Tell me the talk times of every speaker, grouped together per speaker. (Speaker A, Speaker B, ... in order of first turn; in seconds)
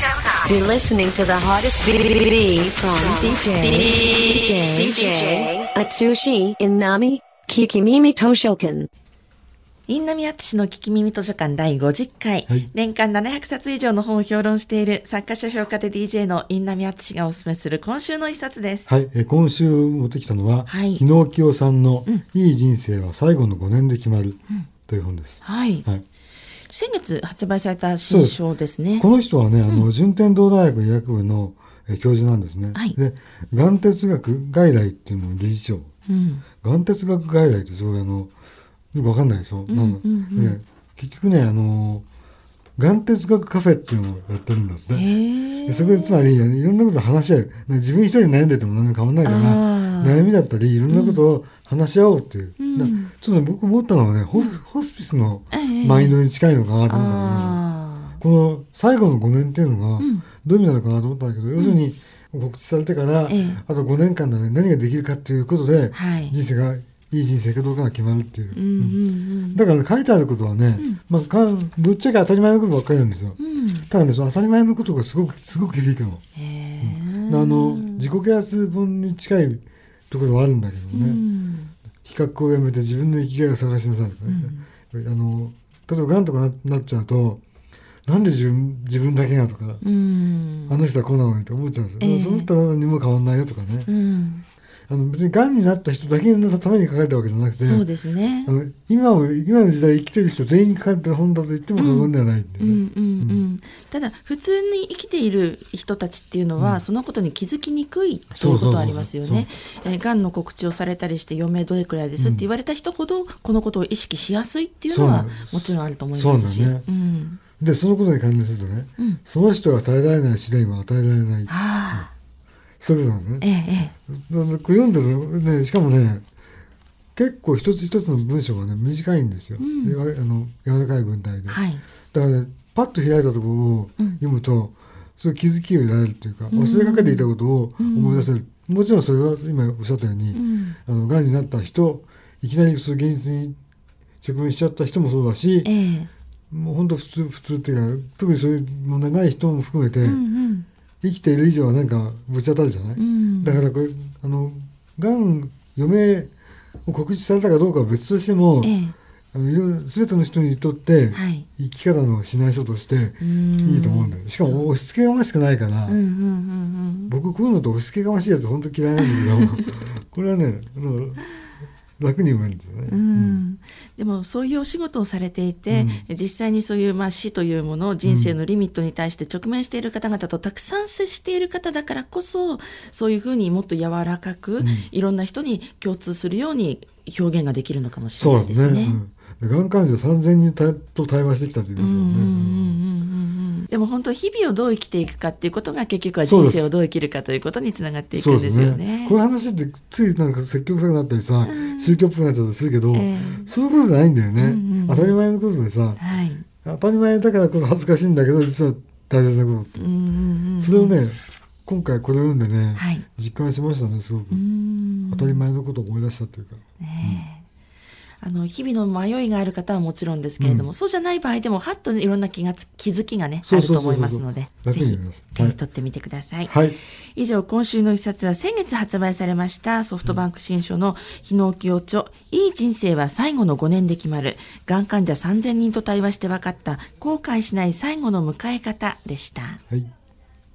Speaker A: 0.4-8.9
Speaker B: 3.3-4.5, 9.9-18.9, 20.6-21.0, 25.4-25.9, 26.7-29.1, 36.1-36.4, 39.7-40.6, 44.9-46.2, 49.2-50.2, 50.9-51.2, 52.6-53.1, 55.5-56.2, 56.9-58.2, 60.0-60.2, 63.3-63.6, 65.9-66.4, 68.5-69.6, 73.4-73.9, 76.3-78.1, 80.9-81.7, 84.3-84.7, 89.8-90.8, 92.0-92.5, 93.9-94.4, 97.6-98.5, 101.7-117.4, 121.5-122.1, 123.4-123.9, 129.6-130.0, 131.5-131.8, 136.5-138.3, 140.3-140.8, 145.6-146.1, 150.0-150.7, 152.9-153.6, 158.6-158.9, 161.1-161.5, 163.2-164.7, 165.9-167.1, 169.0-169.6, 172.9-189.0, 191.8-199.2, 201.4-202.0, 202.9-203.5, 204.4-205.2, 206.0-206.4, 209.8-211.0, 212.7-213.0, 214.3-215.4, 216.8-217.4, 218.2-226.6, 227.1-239.6
Speaker C: 18.9-26.0, 28.0-28.4, 29.0-35.9, 36.6-38.3, 38.9-42.0, 42.8-45.1, 45.6-57.6, 58.2-69.0, 69.5-76.2, 76.8-81.2, 82.0-87.4, 88.0-89.8, 90.7-93.9, 94.9-97.9, 98.4-103.4, 108.3-109.5, 112.2-112.5, 114.9-116.9, 117.6-122.1, 122.8-123.5, 124.1-126.2, 127.2-143.6, 144.2-145.7, 146.5-150.2, 151.0-156.3, 156.8-158.8, 159.3-166.0, 167.1-171.2, 172.0-173.4, 175.7-176.0, 178.0-178.3, 184.6-184.9, 188.2-192.8, 196.2-196.7, 198.1-206.0, 206.6-209.9, 210.6-214.4, 215.1-217.2, 220.4-220.7, 223.4-225.6, 226.4-226.8